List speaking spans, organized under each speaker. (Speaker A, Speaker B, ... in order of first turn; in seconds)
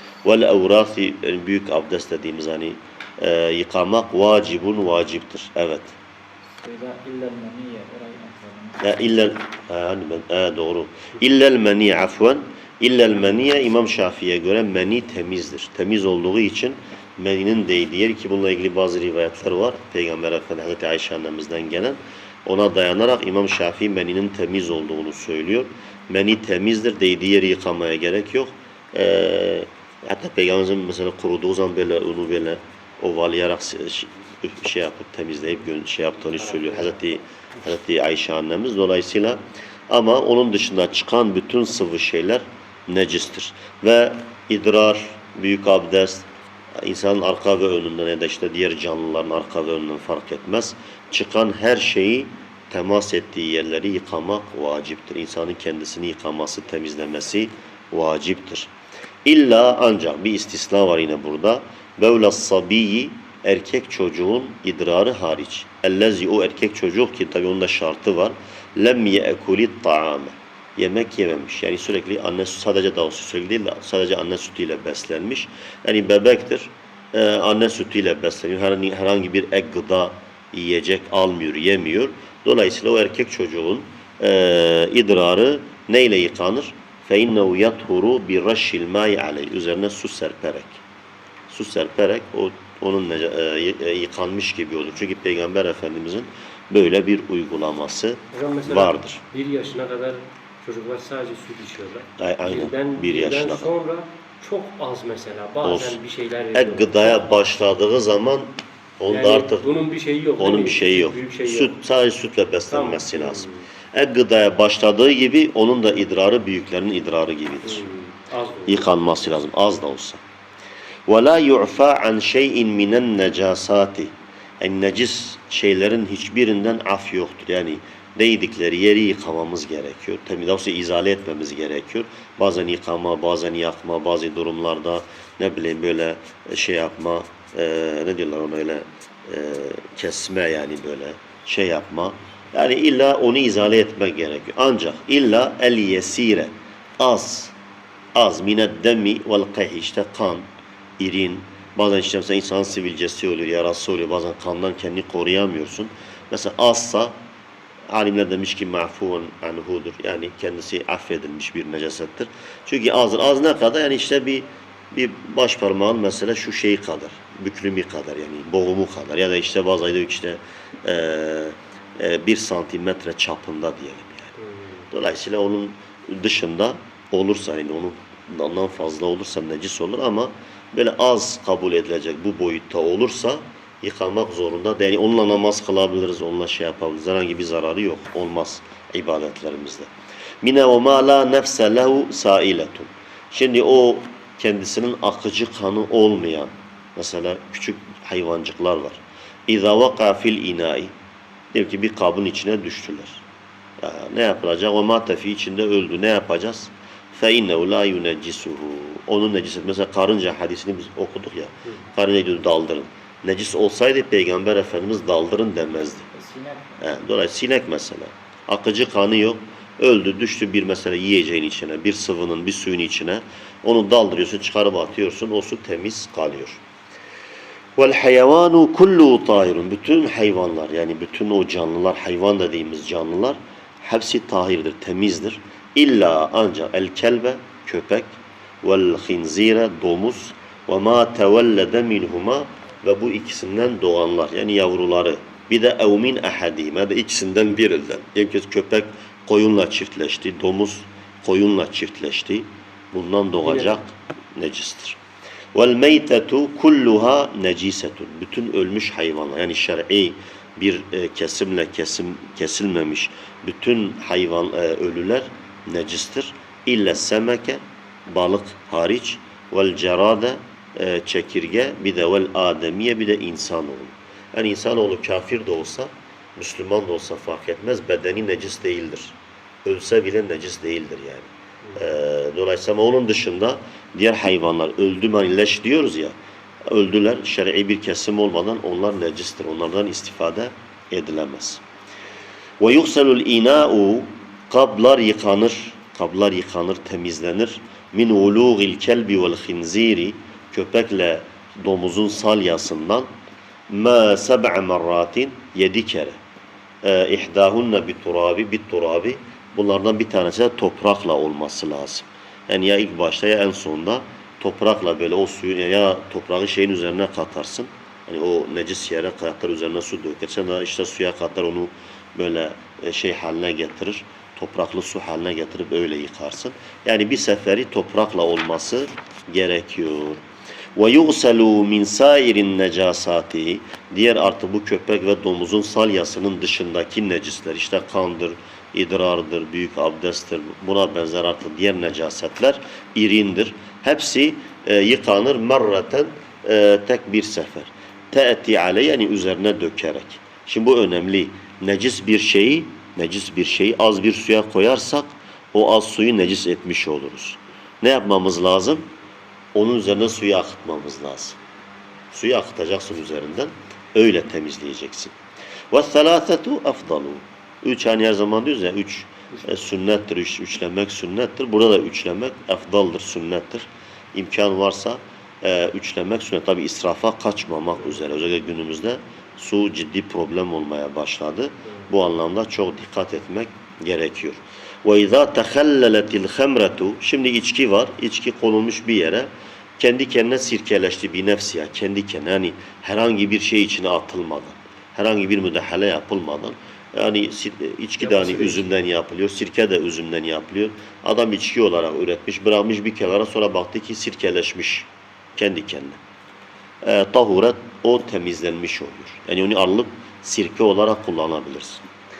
Speaker A: 0.2-6.0, 8.8-46.3, 46.8-58.7, 59.2-90.8, 91.5-99.2, 102.2-103.7, 105.6-106.0, 106.5-109.7, 110.4-117.8, 118.7-120.2, 121.1-147.5, 148.1-150.5, 151.0-157.2, 157.9-174.3, 174.9-189.9, 190.4-200.9, 201.5-203.2, 203.8-216.1, 216.8-226.6, 227.8-255.0, 255.5-286.1, 286.7-291.6, 292.6-303.1, 303.7-306.2, 306.8-330.2, 330.7-358.9, 359.5-361.4, 362.1-365.1, 365.7-406.0, 406.8-411.8
Speaker B: 6.6-8.9, 216.1-216.8
Speaker C: 36.5-36.9, 98.3-107.4, 109.1-111.8, 112.7-113.7, 117.6-118.9, 174.4-174.8, 253.4-253.8, 398.0-398.7